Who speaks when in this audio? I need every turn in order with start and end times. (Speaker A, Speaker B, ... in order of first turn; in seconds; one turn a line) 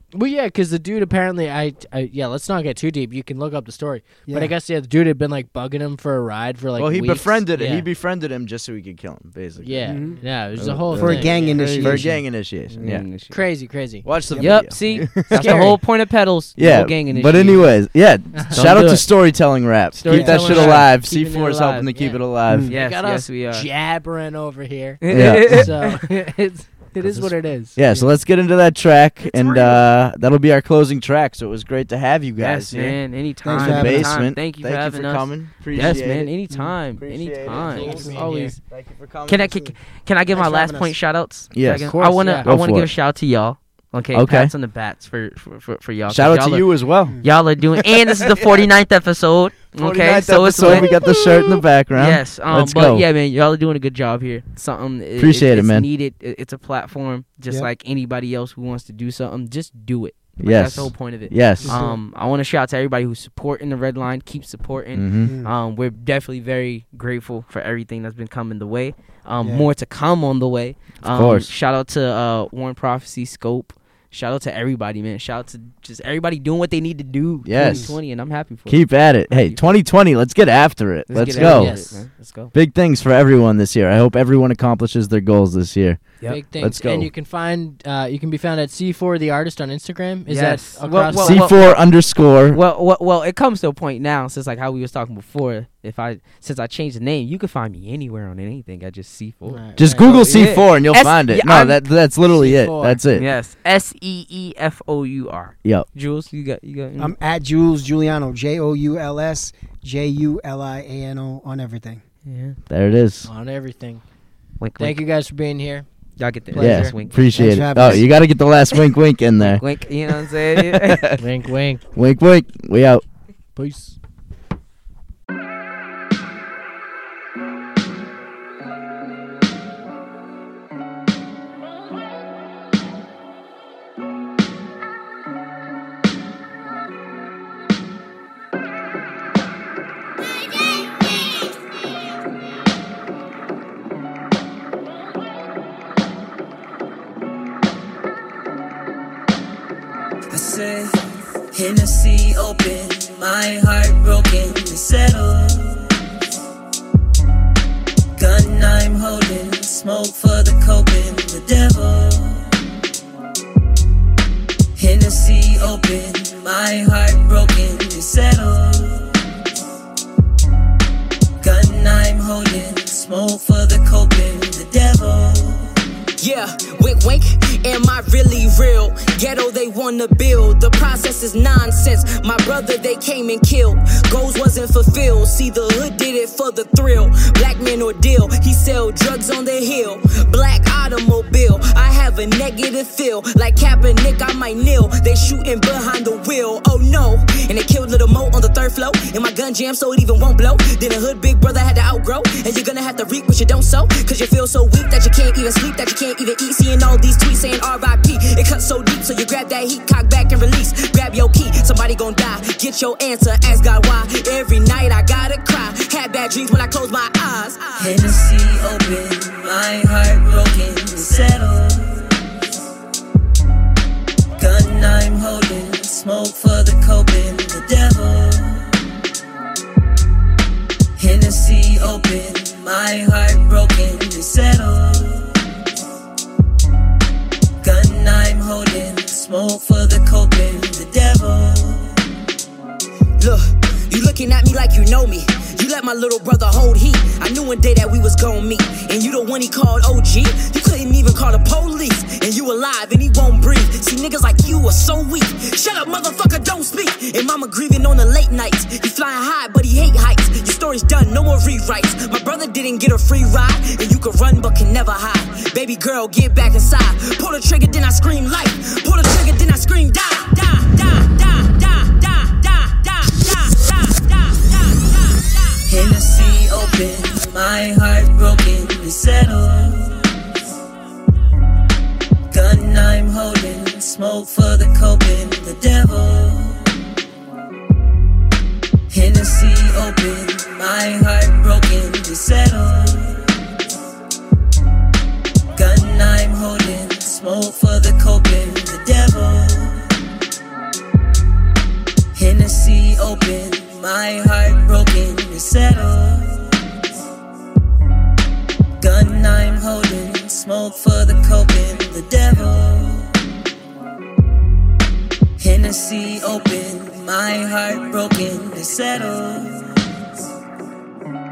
Speaker A: 0.1-7.9
Speaker B: 4.3-4.5
Speaker C: 6.8-10.0
Speaker A: 9.6-12.0
Speaker B: 9.8-10.2
Speaker D: 10.0-10.8
Speaker C: 10.6-13.1
Speaker B: 10.9-12.2
Speaker D: 12.7-13.4
Speaker A: 13.3-14.1
Speaker C: 14.1-15.8
Speaker B: 14.3-14.6
Speaker D: 14.4-17.7
Speaker A: 14.9-15.8
Speaker C: 16.6-22.8
Speaker A: 18.3-18.6
Speaker D: 18.5-19.1
Speaker D: 20.0-21.9
Speaker B: 20.1-20.6
Speaker A: 20.2-20.9
Speaker B: 22.5-22.7
Speaker D: 22.7-23.7
Speaker A: 22.7-28.1
Speaker D: 25.0-26.0
Speaker C: 25.1-25.7
Speaker C: 27.0-36.3
Speaker A: 29.4-29.8
Speaker D: 32.4-38.6
Speaker B: 33.4-34.2
Speaker C: 36.9-39.6
Speaker A: 37.5-38.5
Speaker B: 37.8-38.3
Speaker D: 39.3-46.7
Speaker B: 40.3-41.0
Speaker C: 41.5-42.9
Speaker A: 41.9-42.5
Speaker C: 44.1-44.5
Speaker C: 46.1-47.2
Speaker B: 47.1-47.3
Speaker D: 47.2-50.9
Speaker C: 47.8-48.7
Speaker C: 49.8-53.1
Speaker D: 52.0-79.8
Speaker C: 55.2-55.9
Speaker C: 60.4-61.8
Speaker B: 61.6-62.0
Speaker C: 65.0-65.3
Speaker B: 65.2-65.5
Speaker B: 69.4-69.7
Speaker C: 71.0-71.5
Speaker C: 77.5-78.0
Speaker B: 77.6-77.9
Speaker C: 78.7-81.9
Speaker D: 81.1-82.5
Speaker A: 81.2-82.0
Speaker C: 82.5-87.1
Speaker A: 86.3-91.6
Speaker D: 90.3-91.7
Speaker C: 91.2-92.6
Speaker D: 92.5-99.7
Speaker A: 99.5-100.2
Speaker B: 99.8-100.6
Speaker C: 99.8-103.3
Speaker D: 100.3-101.8
Speaker B: 102.3-103.0
Speaker D: 103.1-107.2
Speaker B: 107.0-112.0
Speaker D: 112.3-112.6
Speaker C: 112.7-113.3
Speaker A: 113.3-114.0
Speaker D: 114.6-115.0
Speaker A: 114.8-115.9
Speaker D: 116.2-118.0
Speaker A: 116.5-117.0
Speaker C: 116.6-121.2
Speaker B: 117.3-118.1
Speaker D: 119.4-121.0
Speaker A: 121.2-121.8
Speaker C: 122.0-123.0
Speaker A: 123.5-124.0
Speaker E: 150.3-151.0
Speaker E: 151.5-156.0
Speaker E: 158.2-162.5
Speaker E: 164.8-169.2
Speaker E: 171.4-175.8
Speaker F: 176.2-217.9
Speaker E: 217.8-222.2
Speaker E: 224.4-228.8
Speaker E: 231.0-235.4
Speaker E: 237.6-242.1
Speaker F: 243.2-275.2
Speaker E: 275.7-280.0
Speaker E: 282.3-286.7
Speaker E: 288.9-293.3
Speaker E: 295.6-299.9
Speaker E: 302.1-306.4
Speaker E: 308.8-313.1
Speaker E: 315.4-319.7